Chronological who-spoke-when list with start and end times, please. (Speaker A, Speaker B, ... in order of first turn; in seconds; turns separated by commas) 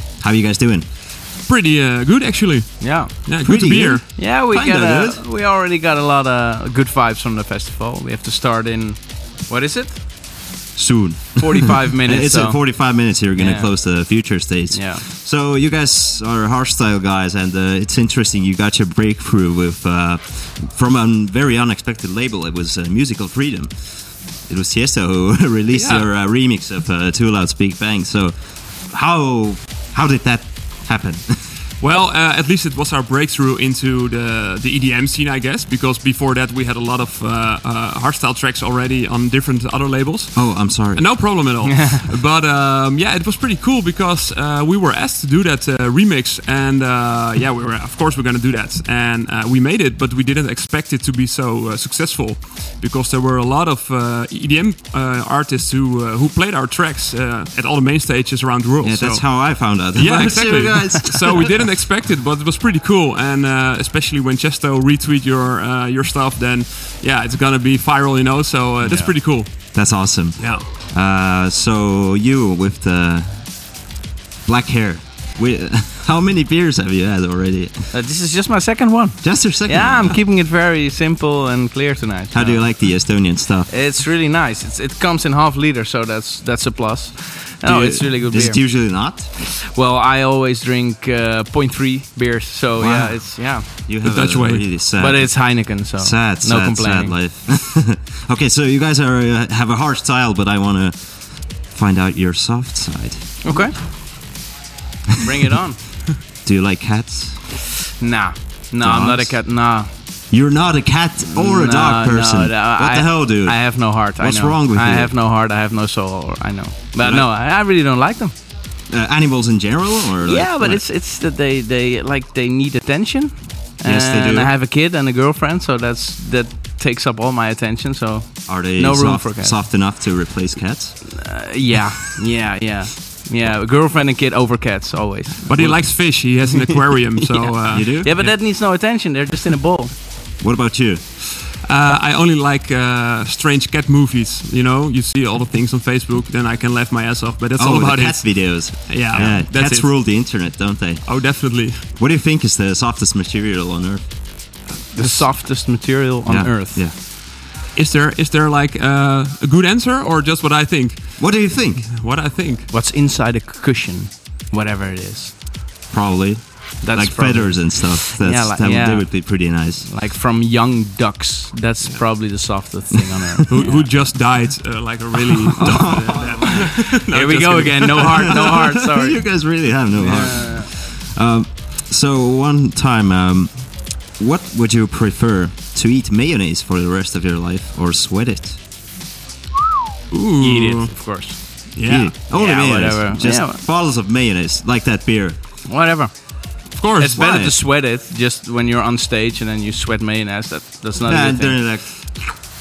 Speaker A: 0.2-0.9, Speaker B: 1.4-4.0, Speaker C: 2.8-3.2, Speaker A: 3.4-5.2, Speaker C: 4.2-10.0, Speaker A: 10.7-31.4, Speaker C: 11.4-14.0, Speaker C: 14.7-15.0, Speaker B: 25.7-26.1, Speaker B: 31.8-70.6, Speaker A: 40.3-41.1, Speaker A: 58.8-61.5, Speaker A: 68.8-73.6, Speaker A: 74.4-77.9, Speaker C: 77.9-88.8, Speaker A: 79.2-80.2, Speaker A: 82.3-83.7, Speaker A: 87.6-89.4, Speaker C: 89.3-93.7, Speaker A: 92.8-103.7, Speaker B: 94.0-94.8, Speaker C: 95.0-97.2, Speaker C: 103.4-103.8, Speaker C: 105.2-105.8, Speaker A: 106.4-107.5, Speaker C: 108.0-109.9, Speaker A: 108.8-109.7, Speaker A: 110.3-115.1, Speaker C: 111.2-118.3, Speaker A: 117.0-117.3, Speaker A: 118.9-120.8, Speaker C: 120.2-129.6, Speaker A: 123.8-124.5, Speaker A: 128.4-131.2, Speaker C: 131.1-136.6, Speaker B: 135.5-138.3, Speaker C: 137.3-140.0, Speaker A: 137.7-138.1, Speaker A: 140.4-141.0, Speaker B: 141.4-150.3, Speaker A: 147.6-154.0, Speaker B: 151.0-151.8, Speaker B: 154.9-155.3, Speaker C: 154.9-156.8, Speaker A: 156.2-156.9, Speaker B: 157.7-162.7, Speaker A: 161.2-161.8, Speaker C: 162.7-165.3, Speaker A: 165.9-169.9, Speaker C: 166.8-174.3, Speaker B: 173.5-178.6, Speaker C: 175.6-180.7, Speaker A: 175.6-176.8, Speaker A: 178.2-188.6, Speaker B: 190.1-190.9, Speaker C: 190.4-191.6, Speaker B: 191.6-192.2, Speaker A: 191.8-195.4, Speaker C: 192.3-193.6, Speaker C: 195.6-196.4, Speaker B: 196.7-197.2, Speaker C: 196.9-201.9, Speaker A: 197.1-197.6, Speaker A: 201.0-202.3